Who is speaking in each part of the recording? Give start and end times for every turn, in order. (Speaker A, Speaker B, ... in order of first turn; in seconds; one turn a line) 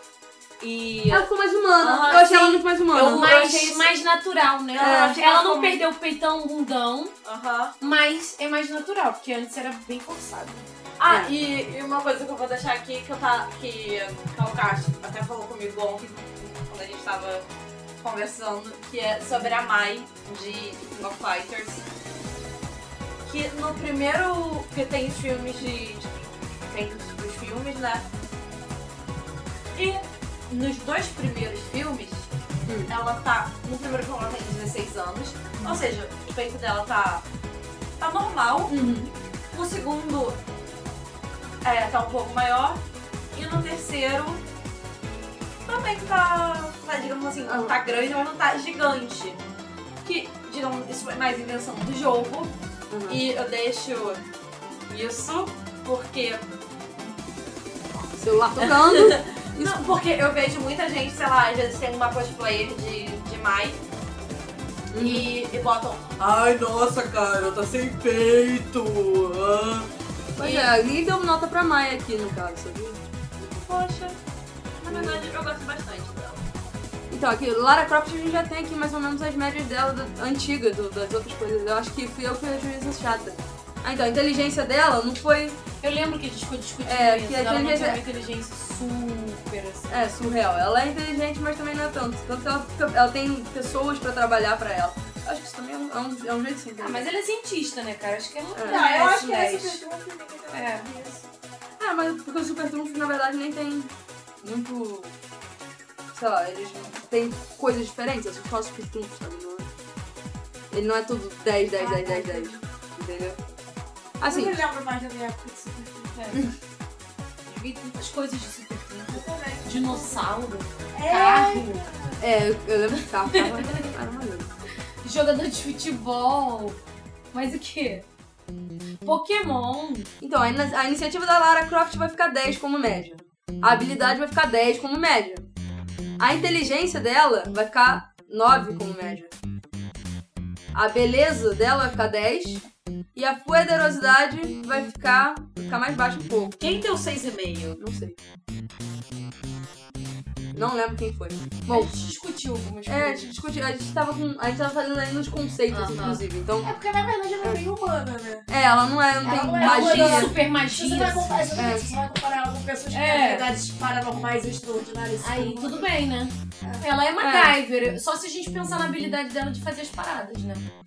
Speaker A: 0.6-3.9
Speaker B: 1.1-3.3
Speaker C: 2.1-2.4
Speaker C: 2.9-7.1
Speaker A: 4.7-5.8
Speaker B: 4.8-5.2
Speaker A: 7.2-7.8
Speaker C: 7.8-10.7
Speaker A: 11.0-17.5
Speaker A: 18.0-21.9
Speaker A: 23.2-28.1
Speaker A: 29.8-32.3
Speaker B: 32.7-32.9
Speaker A: 32.9-37.3
Speaker A: 38.0-38.8
Speaker B: 38.7-39.1
Speaker A: 39.5-40.4
Speaker A: 41.6-42.8
Speaker A: 43.3-44.4
Speaker A: 45.7-49.4
Speaker B: 47.5-47.8
Speaker A: 50.0-52.5
Speaker B: 52.9-53.2
Speaker A: 53.1-54.2
Speaker A: 54.9-56.5
Speaker B: 58.1-59.9
Speaker A: 58.6-63.9
Speaker B: 64.9-65.3
Speaker A: 65.0-70.7
Speaker B: 70.4-73.0
Speaker A: 73.4-74.2
Speaker A: 74.8-76.5
Speaker B: 74.9-75.3
Speaker B: 77.1-85.6
Speaker C: 85.8-90.1
Speaker B: 86.9-88.0
Speaker B: 89.9-97.1
Speaker C: 96.8-99.8
Speaker B: 98.5-98.9
Speaker D: 98.7-101.2
Speaker C: 100.5-100.9
Speaker B: 101.8-105.2
Speaker B: 106.1-109.7
Speaker B: 110.7-113.4
Speaker D: 111.8-112.6
Speaker B: 114.2-114.6
Speaker D: 114.2-116.2
Speaker C: 116.2-116.4
Speaker C: 117.5-121.8
Speaker D: 119.1-120.3
Speaker D: 120.9-122.2
Speaker B: 122.2-124.5
Speaker C: 123.3-123.8
Speaker C: 125.0-126.8
Speaker C: 127.3-128.1
Speaker C: 129.0-130.1
Speaker B: 130.2-135.5
Speaker B: 136.2-139.3
Speaker B: 140.7-142.6
Speaker B: 143.2-146.6
Speaker A: 146.6-147.8
Speaker B: 147.8-148.2
Speaker B: 150.5-151.9
Speaker C: 151.7-153.3
Speaker B: 152.9-156.8
Speaker A: 155.7-156.2
Speaker D: 156.6-158.5
Speaker B: 158.5-160.4
Speaker D: 159.2-165.9
Speaker C: 159.6-161.5
Speaker B: 161.6-161.9
Speaker C: 162.9-163.5
Speaker C: 165.2-170.6
Speaker B: 167.2-167.6